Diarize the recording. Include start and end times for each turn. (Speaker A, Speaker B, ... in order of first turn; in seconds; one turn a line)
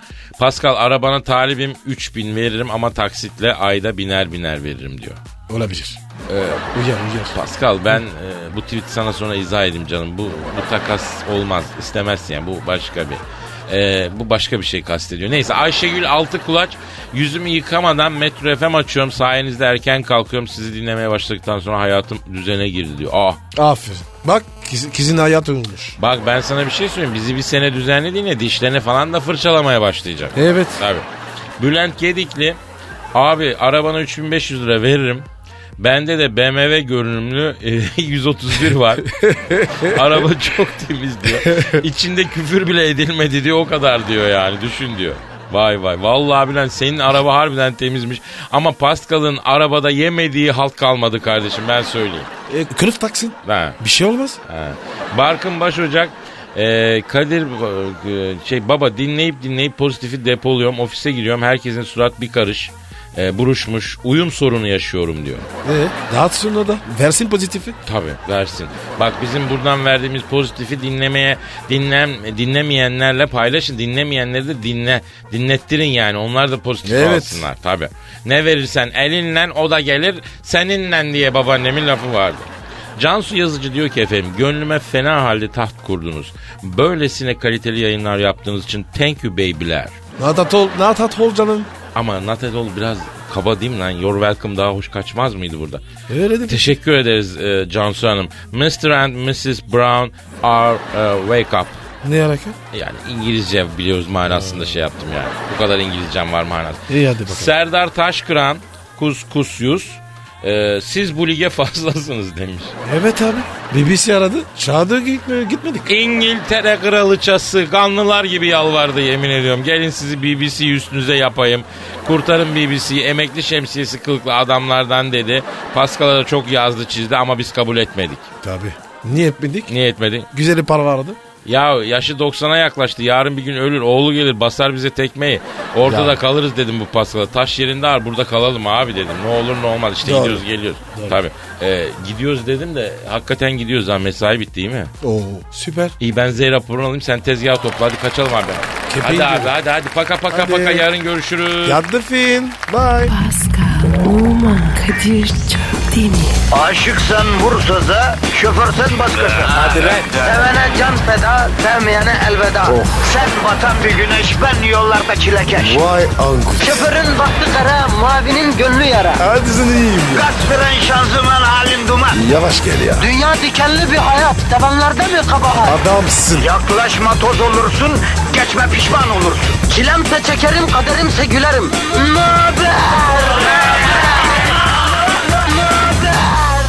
Speaker A: 0.4-5.2
Speaker B: 5.5-6.0
Speaker A: 6.3-6.7
Speaker B: 6.7-7.4
Speaker A: 7.3-23.4
Speaker B: 23.6-26.0
Speaker A: 26.0-31.1
Speaker B: 30.4-30.8
Speaker A: 31.6-32.6
Speaker A: 33.1-35.3
Speaker A: 35.8-39.1
Speaker B: 39.1-40.1
Speaker A: 39.7-52.3
Speaker B: 41.5-41.8
Speaker B: 52.5-54.4
Speaker A: 53.5-53.8
Speaker A: 54.5-65.5
Speaker B: 65.6-67.8
Speaker A: 67.8-90.0
Speaker B: 76.8-77.5
Speaker B: 90.2-91.7
Speaker A: 92.0-95.8
Speaker B: 96.1-96.7
Speaker A: 96.5-101.8
Speaker B: 102.0-102.6
Speaker A: 102.7-112.8
Speaker B: 104.3-104.8
Speaker B: 106.9-107.5
Speaker B: 112.8-115.9
Speaker A: 115.9-128.3
Speaker B: 128.4-129.7
Speaker A: 129.7-130.3
Speaker B: 130.3-131.2
Speaker A: 131.4-144.9
Speaker B: 135.8-136.2
Speaker B: 140.0-141.2
Speaker B: 145.0-145.9
Speaker A: 146.0-151.8
Speaker B: 148.9-149.5
Speaker B: 150.3-150.9
Speaker B: 151.6-153.1
Speaker C: 153.1-156.4
Speaker D: 156.5-165.8
Speaker B: 162.7-163.0
Speaker B: 165.6-166.9
Speaker D: 166.6-169.2
Speaker B: 169.2-170.3
Speaker D: 170.1-172.2
Speaker B: 172.1-173.1
Speaker D: 173.0-175.8
Speaker B: 175.6-176.5
Speaker D: 176.4-184.3
Speaker D: 185.1-186.4